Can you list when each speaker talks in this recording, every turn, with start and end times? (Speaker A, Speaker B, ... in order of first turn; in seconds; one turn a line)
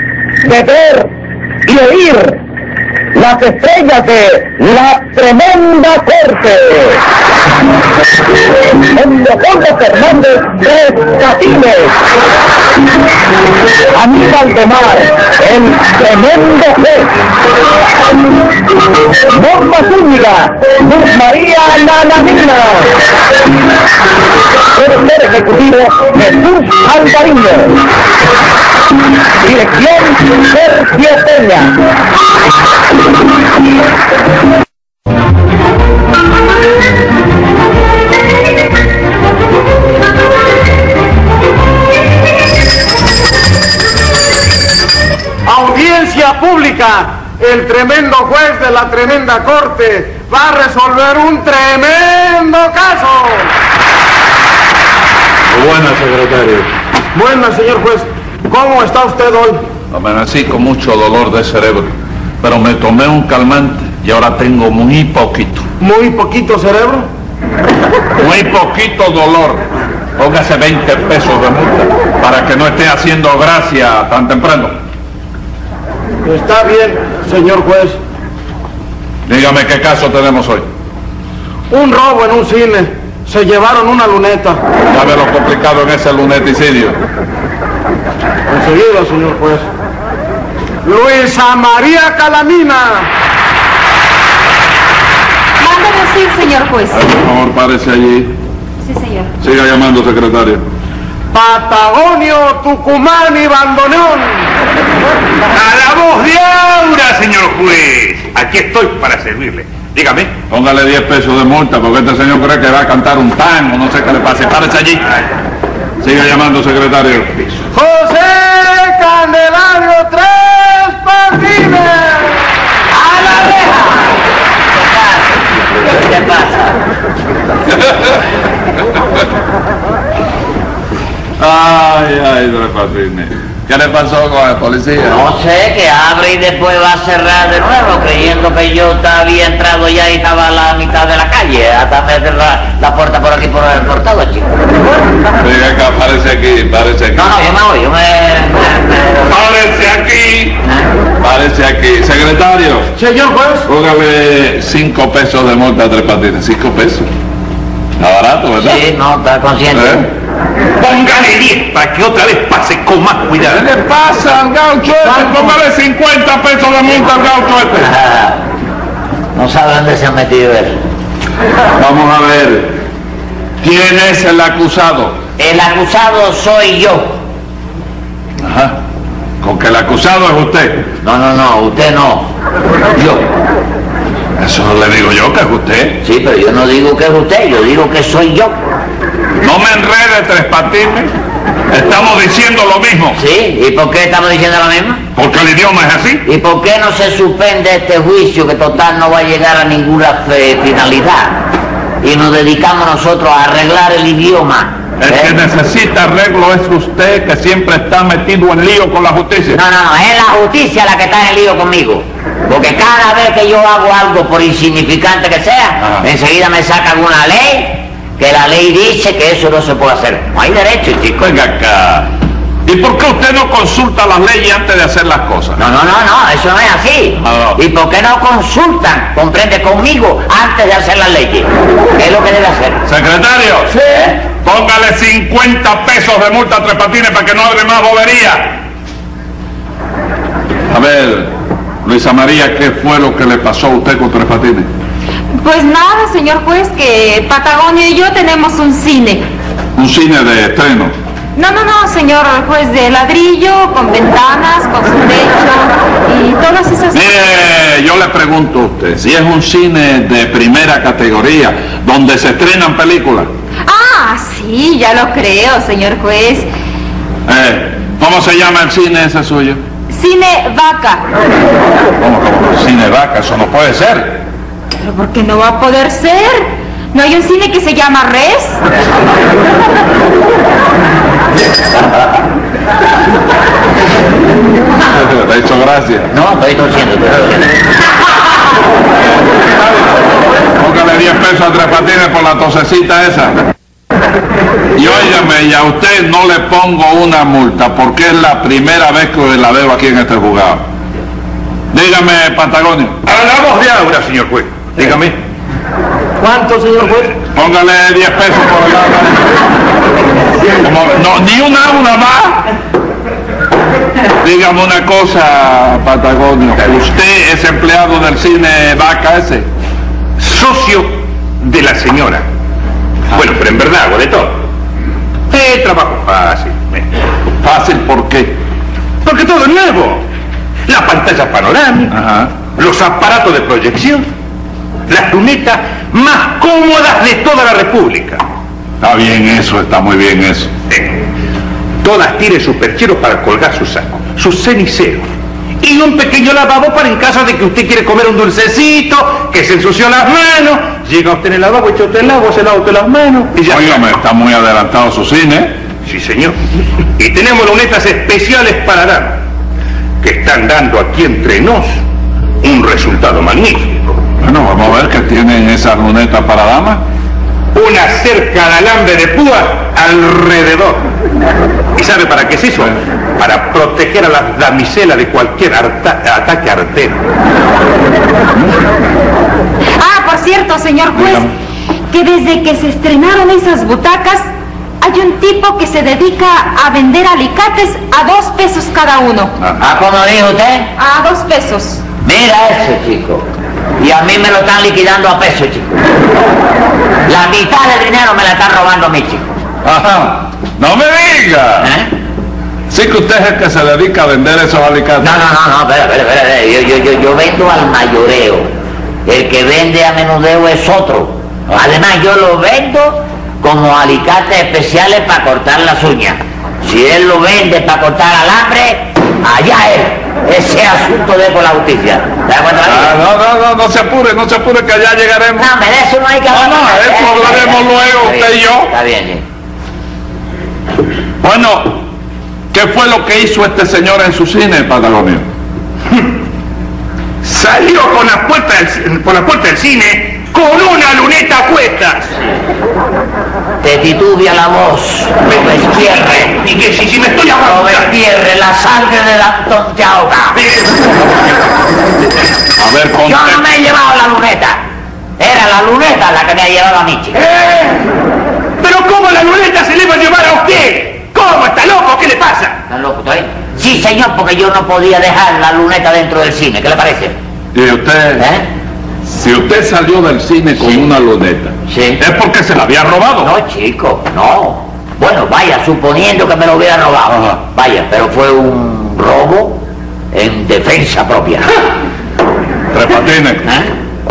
Speaker A: 0.4-1.1
Speaker A: 1.7-2.4
Speaker A: 3.1-7.0
Speaker A: 8.8-12.0
Speaker A: 13.9-17.1
Speaker A: 19.3-23.0
Speaker A: 24.8-27.8
Speaker A: 29.4-31.7
Speaker B: 45.5-53.5
Speaker C: 55.5-56.7
Speaker B: 57.1-59.6
Speaker C: 59.9-65.7
Speaker B: 65.8-67.1
Speaker C: 68.2-69.7
Speaker C: 70.2-74.8
Speaker B: 76.2-78.0
Speaker C: 79.2-80.6
Speaker B: 81.7-84.6
Speaker C: 84.9-87.0
Speaker B: 88.5-89.7
Speaker B: 90.8-93.1
Speaker D: 95.6-97.0
Speaker C: 96.9-98.3
Speaker D: 98.8-99.3
Speaker C: 99.4-100.6
Speaker B: 101.3-104.5
Speaker E: 105.5-110.3
Speaker C: 110.5-115.2
Speaker C: 116.0-117.6
Speaker B: 117.7-122.4
Speaker F: 122.9-124.1
Speaker F: 124.8-126.8
Speaker C: 127.7-128.2
Speaker C: 131.4-135.2
Speaker F: 135.1-144.6
Speaker C: 145.4-147.4
Speaker F: 147.1-149.4
Speaker C: 149.3-150.6
Speaker C: 151.2-152.9
Speaker B: 153.0-153.7
Speaker C: 153.7-157.1
Speaker C: 158.0-158.8
Speaker F: 158.6-160.1
Speaker C: 159.7-160.1
Speaker E: 160.8-163.6
Speaker C: 163.4-167.9
Speaker F: 167.8-168.4
Speaker F: 169.3-170.8
Speaker C: 171.8-172.8
Speaker C: 173.6-175.2
Speaker F: 175.4-177.2
Speaker C: 178.4-178.8
Speaker C: 179.4-180.9
Speaker F: 181.0-182.3
Speaker F: 182.9-183.3
Speaker C: 184.4-186.0
Speaker F: 186.0-188.6
Speaker C: 189.4-191.1
Speaker C: 191.7-193.2
Speaker F: 193.2-195.0
Speaker C: 195.2-196.2
Speaker F: 196.2-201.4
Speaker F: 202.0-205.3
Speaker C: 205.0-209.6
Speaker F: 209.5-221.3
Speaker C: 221.2-222.1
Speaker C: 222.6-225.6
Speaker F: 225.6-232.8
Speaker C: 227.2-227.6
Speaker C: 232.8-238.6
Speaker C: 240.7-241.3
Speaker C: 241.8-244.7
Speaker D: 245.4-249.3
Speaker C: 249.7-250.9
Speaker D: 251.3-257.2
Speaker C: 256.9-263.3
Speaker D: 263.7-266.5
Speaker C: 267.3-269.6
Speaker D: 269.9-271.1
Speaker C: 272.0-274.2
Speaker D: 274.8-278.6
Speaker C: 284.9-286.1
Speaker F: 286.1-287.6
Speaker C: 289.2-293.4
Speaker C: 294.7-300.6
Speaker C: 301.7-303.0
Speaker E: 303.0-305.2
Speaker B: 306.2-307.1
Speaker C: 307.3-309.4
Speaker C: 310.6-312.5
Speaker C: 314.2-319.5
Speaker E: 320.2-322.2
Speaker E: 323.1-324.4
Speaker E: 325.3-326.9
Speaker C: 327.4-328.4
Speaker E: 329.0-330.0
Speaker E: 330.7-331.9
Speaker C: 331.9-332.3
Speaker E: 332.5-334.1
Speaker E: 334.9-338.2
Speaker C: 338.8-340.5
Speaker E: 340.7-341.1
Speaker E: 341.8-345.1
Speaker E: 345.6-353.9
Speaker C: 353.4-355.6
Speaker E: 355.8-356.4
Speaker E: 357.0-359.2
Speaker E: 360.0-361.7
Speaker E: 362.4-364.0
Speaker C: 364.2-366.8
Speaker E: 367.5-370.9
Speaker E: 371.8-377.0
Speaker D: 379.8-381.3
Speaker C: 381.0-381.2
Speaker D: 381.9-389.4
Speaker F: 389.6-390.7
Speaker D: 390.8-391.8
Speaker F: 392.0-393.2
Speaker F: 393.8-395.8
Speaker F: 397.1-399.2
Speaker C: 399.6-401.7
Speaker F: 401.6-401.9
Speaker C: 402.7-405.2
Speaker F: 405.0-408.5
Speaker F: 409.1-423.0
Speaker C: 422.6-425.5
Speaker F: 425.4-429.2
Speaker C: 426.3-428.7
Speaker C: 431.2-431.8
Speaker C: 432.5-435.3
Speaker E: 437.2-442.1
Speaker F: 443.6-446.3
Speaker E: 445.3-447.9
Speaker F: 447.4-450.4
Speaker E: 450.4-451.2
Speaker C: 452.6-453.4
Speaker F: 453.0-454.6
Speaker F: 455.2-457.2
Speaker E: 457.2-457.9
Speaker E: 458.6-462.6
Speaker F: 462.7-467.1
Speaker C: 467.5-468.2
Speaker F: 468.2-468.4
Speaker C: 469.0-473.3
Speaker F: 471.7-472.0
Speaker F: 473.2-479.6
Speaker F: 480.1-481.5
Speaker C: 482.7-483.5
Speaker F: 483.4-483.7